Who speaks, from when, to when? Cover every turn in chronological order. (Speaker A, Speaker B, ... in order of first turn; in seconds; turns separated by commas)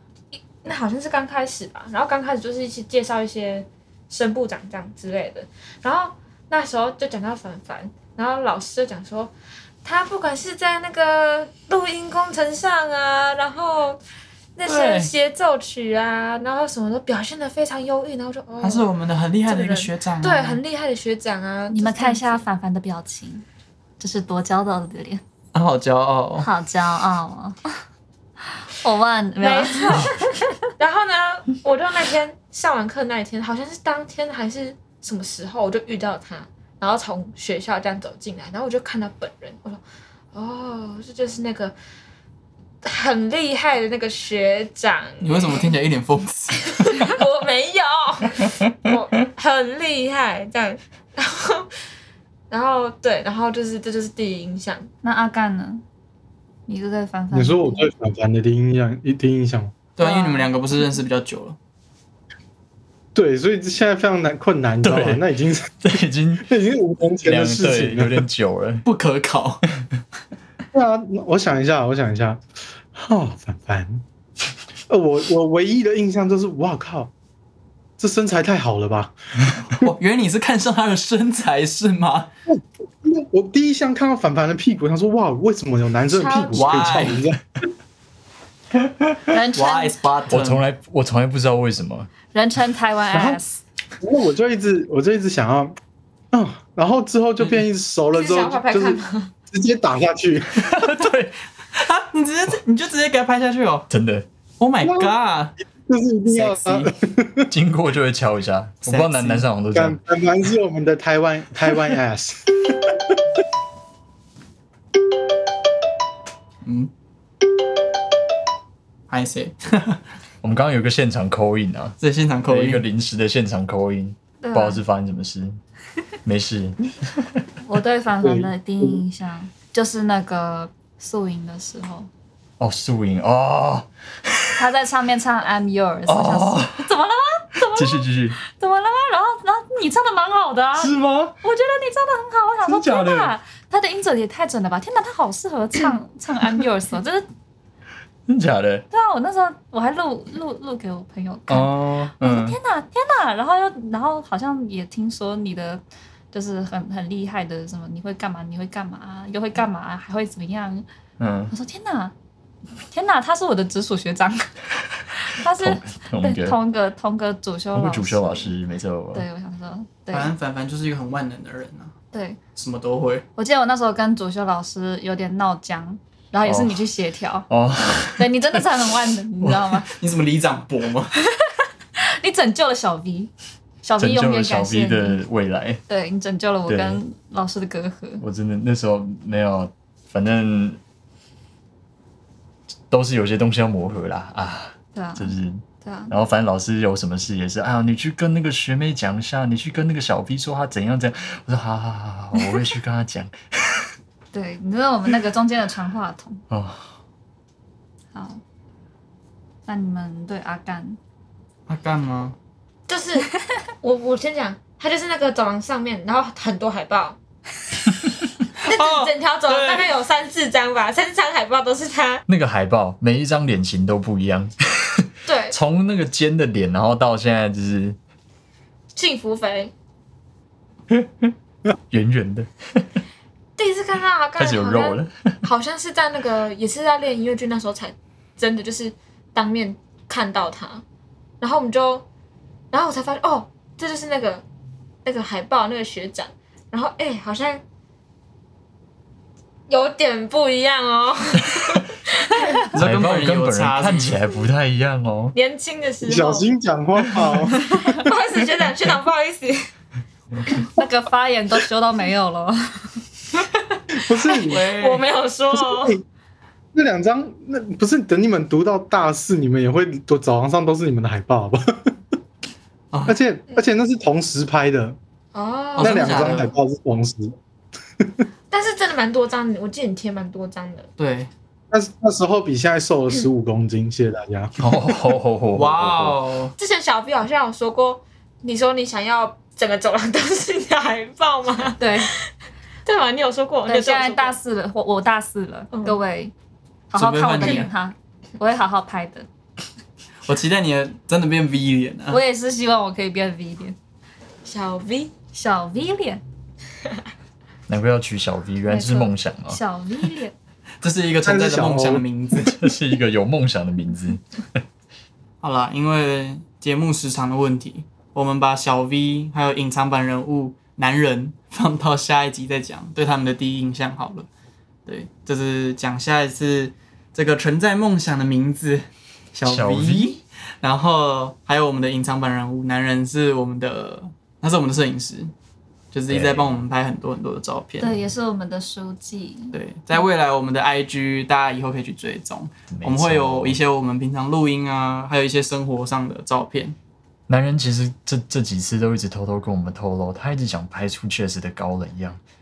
Speaker A: 0.3-9.3, Speaker A: 9.8-14.0, Speaker A: 14.6-18.9, Speaker B: 14.6-15.1, Speaker B: 18.6-20.6, Speaker A: 19.4-22.4, Speaker C: 21.7-23.4, Speaker C: 24.0-25.2, Speaker B: 25.5-26.5, Speaker C: 26.4-27.7, Speaker C: 28.5-30.3, Speaker A: 29.4-39.8, Speaker A: 40.3-41.7, Speaker A: 42.8-45.7, Speaker B: 45.2-47.1, Speaker A: 46.8-51.7, Speaker A: 52.5-54.9, Speaker C: 55.0-55.8, Speaker C: 56.7-57.9, Speaker D: 57.3-59.7, Speaker B: 60.0-61.6, Speaker C: 60.0-60.5, Speaker D: 63.1-65.7, Speaker E: 64.8-65.2, Speaker E: 65.8-66.5, Speaker D: 66.4-68.2, Speaker E: 67.2-68.8, Speaker B: 68.8-69.6, Speaker D: 70.7-72.4, Speaker D: 72.9-74.0, Speaker D: 74.9-77.1, Speaker D: 78.0-79.9, Speaker B: 79.8-82.3, Speaker D: 82.5-87.4, Speaker A: 86.1-87.1, Speaker B: 86.5-87.2, Speaker E: 88.8-89.2, Speaker C: 89.3-90.0, Speaker B: 89.5-90.6, Speaker E: 90.3-92.1, Speaker C: 92.3-93.6, Speaker D: 93.1-93.4, Speaker D: 94.0-95.7, Speaker D: 96.3-100.8, Speaker A: 98.1-99.3, Speaker E: 100.6-101.3, Speaker B: 101.7-103.9, Speaker E: 103.9-104.3, Speaker B: 104.6-105.5, Speaker D: 104.8-105.1, Speaker D: 105.9-107.5, Speaker B: 106.2-106.9, Speaker E: 107.5-110.0, Speaker B: 108.8-109.5, Speaker D: 109.7-113.0, Speaker B: 116.6-116.9, Speaker B: 119.1-120.0, Speaker E: 120.4-122.0, Speaker B: 122.0-122.8, Speaker E: 122.5-125.6, Speaker C: 124.4-124.8, Speaker E: 126.2-127.4, Speaker C: 127.6-132.1, Speaker D: 128.2-128.9, Speaker E: 132.6-134.7, Speaker C: 134.6-147.2, Speaker E: 136.1-136.9, Speaker E: 137.6-138.4, Speaker E: 140.7-141.3, Speaker E: 142.6-143.3, Speaker E: 148.3-148.8, Speaker C: 148.9-155.8, Speaker B: 151.5-152.1, Speaker E: 151.6-152.6, Speaker C: 156.3-160.8, Speaker E: 161.2-161.5, Speaker C: 161.5-162.1, Speaker C: 162.9-164.5, Speaker C: 165.1-168.5, Speaker E: 165.4-166.6, Speaker E: 167.7-169.3, Speaker C: 169.1-170.3, Speaker B: 170.1-171.9, Speaker C: 172.1-172.4, Speaker B: 172.5-173.2, Speaker C: 173.3-177.5, Speaker E: 176.4-176.8, Speaker E: 177.5-178.7, Speaker C: 178.2-179.9, Speaker E: 179.4-179.8, Speaker B: 179.9-181.1, Speaker C: 181.3-183.3, Speaker C: 183.8-185.2, Speaker E: 184.0-185.8, Speaker C: 185.9-188.2, Speaker E: 186.7-187.0, Speaker E: 188.2-190.8, Speaker E: 192.9-203.9, Speaker C: 194.9-196.1, Speaker C: 204.3-206.4, Speaker E: 206.5-206.9, Speaker C: 208.1-208.4, Speaker C: 209.7-211.0, Speaker B: 211.7-212.3, Speaker A: 212.9-217.2, Speaker B: 218.6-219.9, Speaker A: 218.7-222.2, Speaker E: 222.3-228.0, Speaker A: 225.2-225.6, Speaker A: 228.9-229.7, Speaker E: 230.9-231.3, Speaker E: 231.9-232.8, Speaker A: 233.6-240.8, Speaker E: 234.4-235.4, Speaker A: 241.4-242.1, Speaker A: 242.7-244.4, Speaker A: 245.0-247.6, Speaker A: 249.7-252.6, Speaker B: 252.7-254.2, Speaker E: 252.7-255.3, Speaker A: 255.3-256.5, Speaker D: 256.0-258.0, Speaker A: 257.5-259.7, Speaker C: 260.8-263.0, Speaker A: 263.3-265.9, Speaker D: 263.9-264.7, Speaker B: 264.5-265.0, Speaker D: 265.6-266.0, Speaker D: 266.7-271.9, Speaker B: 272.9-273.2, Speaker D: 273.1-275.0, Speaker A: 275.3-276.4, Speaker B: 275.8-276.5, Speaker D: 275.8-277.4, Speaker A: 278.5-280.9, Speaker B: 281.0-281.3, Speaker D: 281.7-284.7, Speaker E: 284.6-286.2, Speaker B: 285.5-286.5, Speaker A: 286.6-292.2, Speaker C: 291.8-292.1, Speaker A: 292.9-294.3, Speaker C: 293.6-296.3, Speaker A: 295.7-296.0, Speaker C: 296.9-299.3, Speaker B: 296.9-297.7, Speaker B: 300.2-302.2, Speaker C: 302.1-303.8, Speaker A: 304.4-305.1, Speaker C: 305.3-306.2, Speaker E: 307.7-309.6, Speaker C: 308.7-310.3, Speaker B: 310.8-312.5, Speaker D: 311.2-312.1, Speaker E: 312.4-314.6, Speaker B: 315.4-324.3, Speaker B: 324.9-335.3, Speaker E: 329.4-330.1, Speaker B: 335.9-337.9, Speaker E: 336.1-336.6, Speaker C: 337.8-339.5, Speaker B: 339.5-346.8, Speaker E: 342.7-343.6, Speaker E: 347.3-352.2